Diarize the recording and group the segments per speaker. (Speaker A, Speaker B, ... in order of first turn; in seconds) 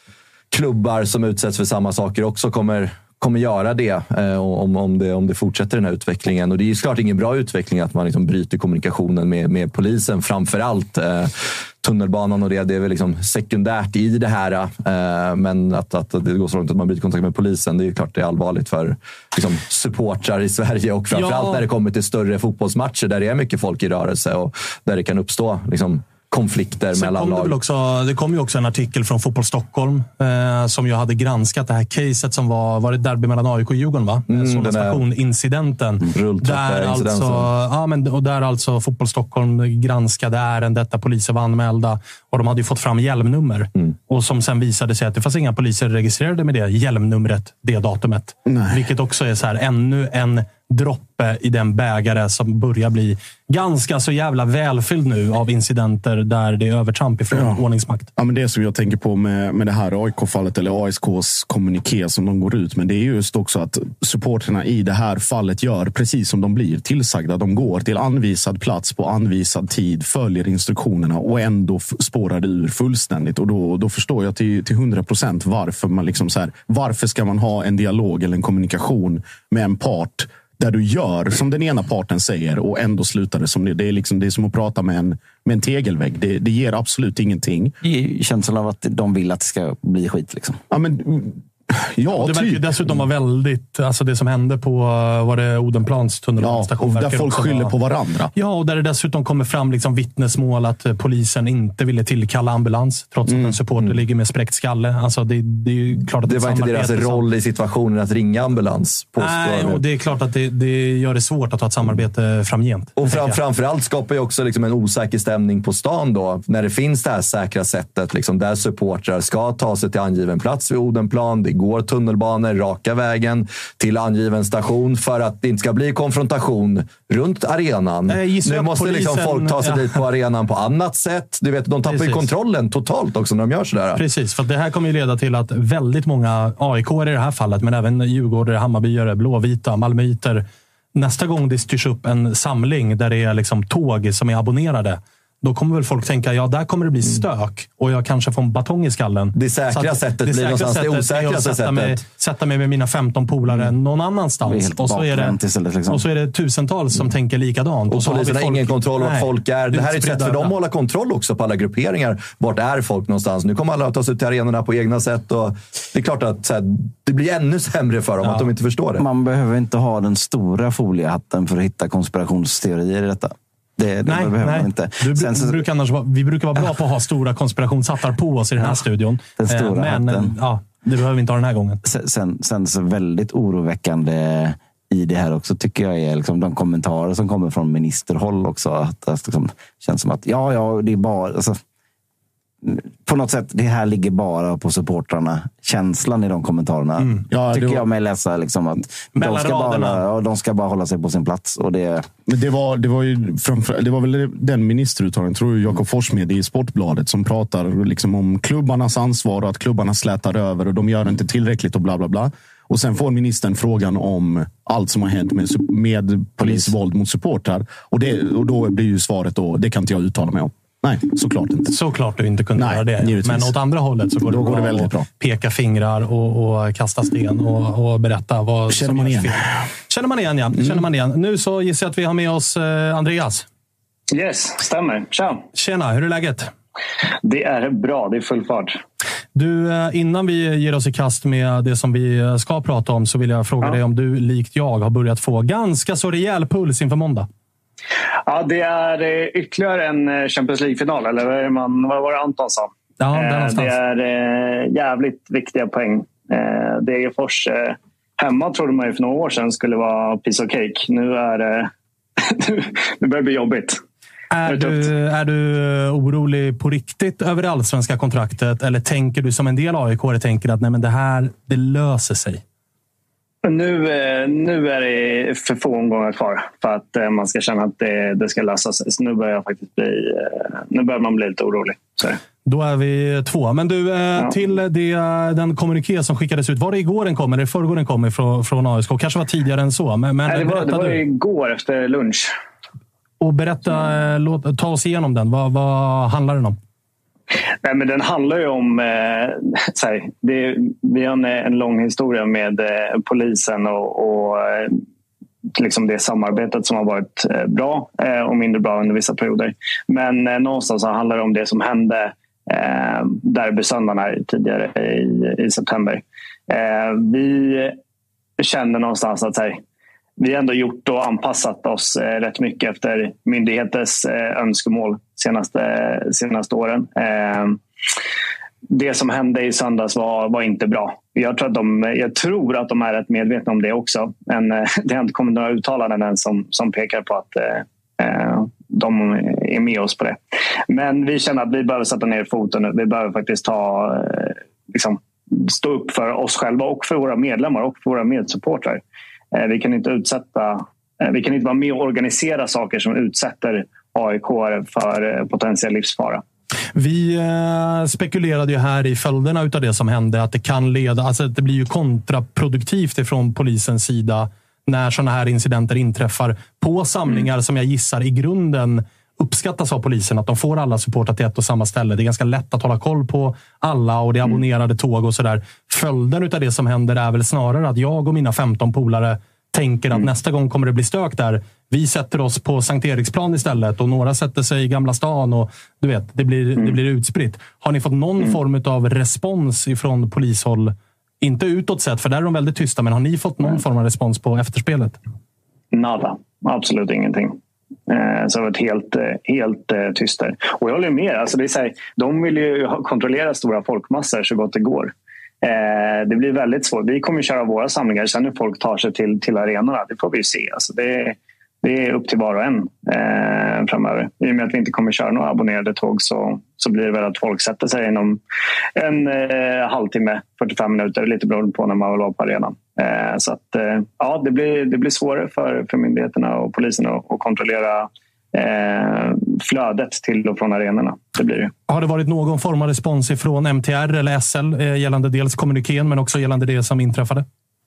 Speaker A: 0.5-27.6, 34.3-35.0, 36.1-37.5, 106.3-109.8, 113.0-134.0, 149.3-152.0, 157.9-169.1
Speaker B: 21.1-21.6, 27.0-58.1, 92.1-97.7, 98.3-107.2, 109.2-113.4, 128.1-130.0, 131.9-132.3, 133.9-140.4, 140.9-155.4, 155.9-160.5, 174.1-181.8, 197.0-197.3, 199.1-200.1, 221.7-233.5, 235.6-236.5, 239.3-247.3, 253.0-253.8, 264.3-272.4, 282.5-291.0, 293.2-296.6, 356.8-395.0, 431.7-437.2
Speaker C: 48.5-48.8, 57.3-57.6, 58.2-87.8, 90.7-93.0, 96.4-98.3, 103.3-103.6, 197.3-197.8, 202.3-221.8, 222.6-223.6, 224.2-225.1, 228.7-229.6
Speaker D: 87.8-90.6, 154.4-156.0, 169.0-175.6, 179.4-180.3, 181.8-191.6, 192.6-202.1, 216.4-216.7
Speaker E: 234.1-235.4, 237.2-238.8, 248.3-263.8, 264.4-264.9, 273.4-282.2, 290.3-292.3, 297.6-304.8, 305.6-317.8, 318.4-319.6, 320.2-327.6, 328.7-348.8, 349.3-356.2, 395.7-418.2, 418.8-431.5